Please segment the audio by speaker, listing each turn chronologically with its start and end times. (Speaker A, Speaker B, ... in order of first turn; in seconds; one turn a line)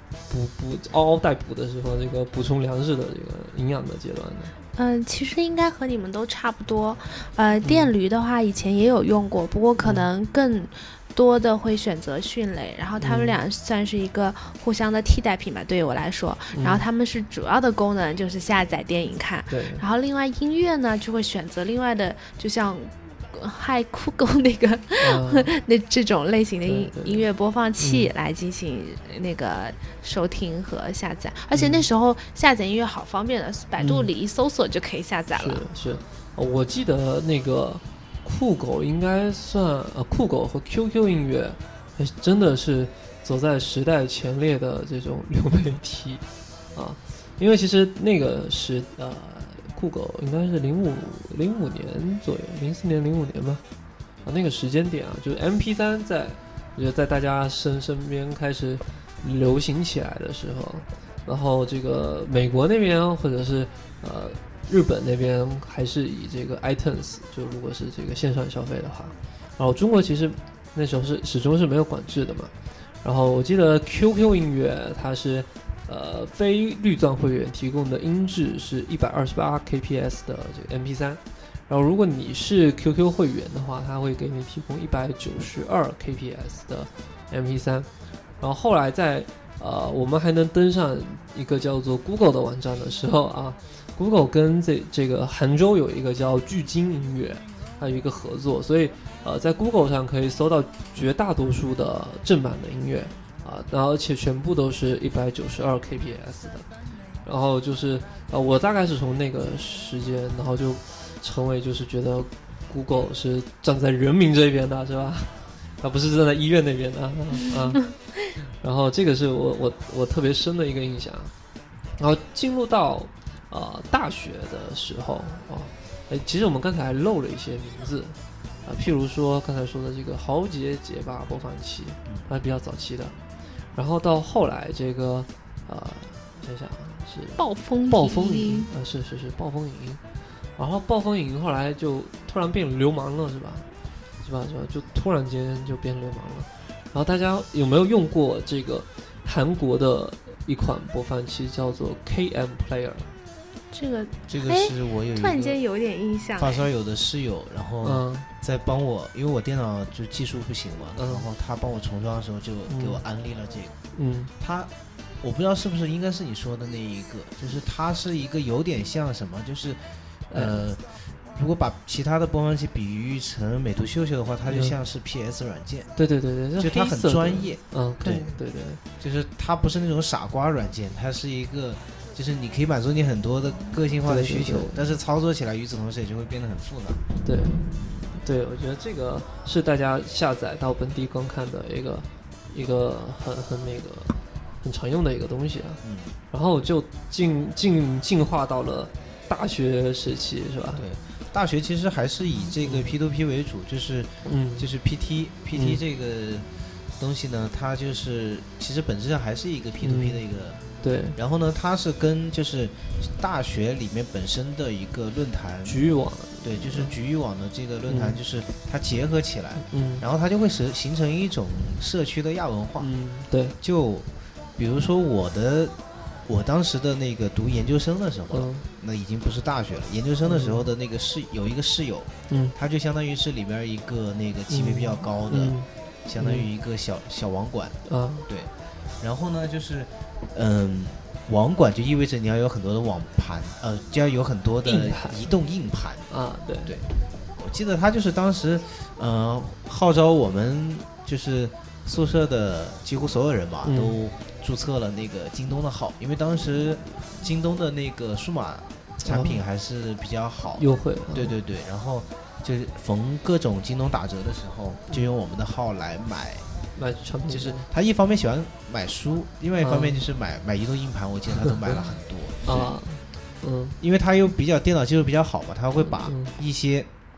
Speaker A: 0.3-4.5
Speaker B: 4.8-35.6
Speaker A: 7.6-7.9
Speaker A: 9.8-10.1
Speaker A: 13.0-13.4
Speaker A: 16.5-16.9
Speaker A: 19.5-19.8
Speaker A: 25.0-25.5
Speaker A: 26.6-27.3
Speaker A: 27.8-28.1
Speaker A: 31.5-31.9
Speaker A: 33.8-34.1
Speaker A: 35.4-53.6
Speaker A: 54.2-106.7
Speaker A: 107.2-121.3
Speaker A: 122.0-133.2
Speaker A: 133.7-143.7
Speaker B: 137.4-138.7
Speaker A: 144.2-153.1
Speaker B: 153.7-156.6
Speaker C: 154.3-155.6
Speaker C: 156.4-163.8
Speaker A: 157.8-158.3
Speaker A: 161.0-161.3
Speaker A: 162.7-163.0
Speaker A: 163.9-164.3
Speaker C: 164.4-164.7
Speaker C: 165.2-175.9
Speaker A: 170.3-170.6
Speaker A: 174.5-174.8
Speaker A: 176.0-178.8
Speaker C: 176.6-178.3
Speaker C: 179.0-187.0
Speaker A: 184.1-184.8
Speaker A: 187.2-200.8
Speaker C: 195.8-196.2
Speaker C: 200.8-215.8
Speaker A: 204.2-204.7
Speaker A: 205.5-205.8
Speaker A: 209.8-210.2
Speaker A: 210.8-211.2
Speaker A: 215.7-216.9
Speaker C: 216.4-222.9
Speaker A: 217.9-218.2
Speaker A: 219.6-220.1
Speaker A: 222.8-223.6
Speaker C: 223.6-225.8
Speaker C: 226.3-246.1
Speaker A: 228.3-228.7
Speaker A: 230.2-230.7
Speaker A: 232.3-232.5
Speaker A: 234.5-236.5
Speaker A: 237.9-238.3
Speaker A: 244.6-245.2
Speaker A: 246.1-246.8
Speaker C: 246.6-266.5
Speaker A: 253.6-254.0
Speaker A: 259.0-259.4
Speaker A: 260.6-261.4
Speaker A: 266.8-267.6
Speaker C: 267.3-272.8
Speaker A: 269.6-270.0
Speaker A: 272.4-273.8
Speaker C: 273.8-276.9
Speaker A: 275.8-276.3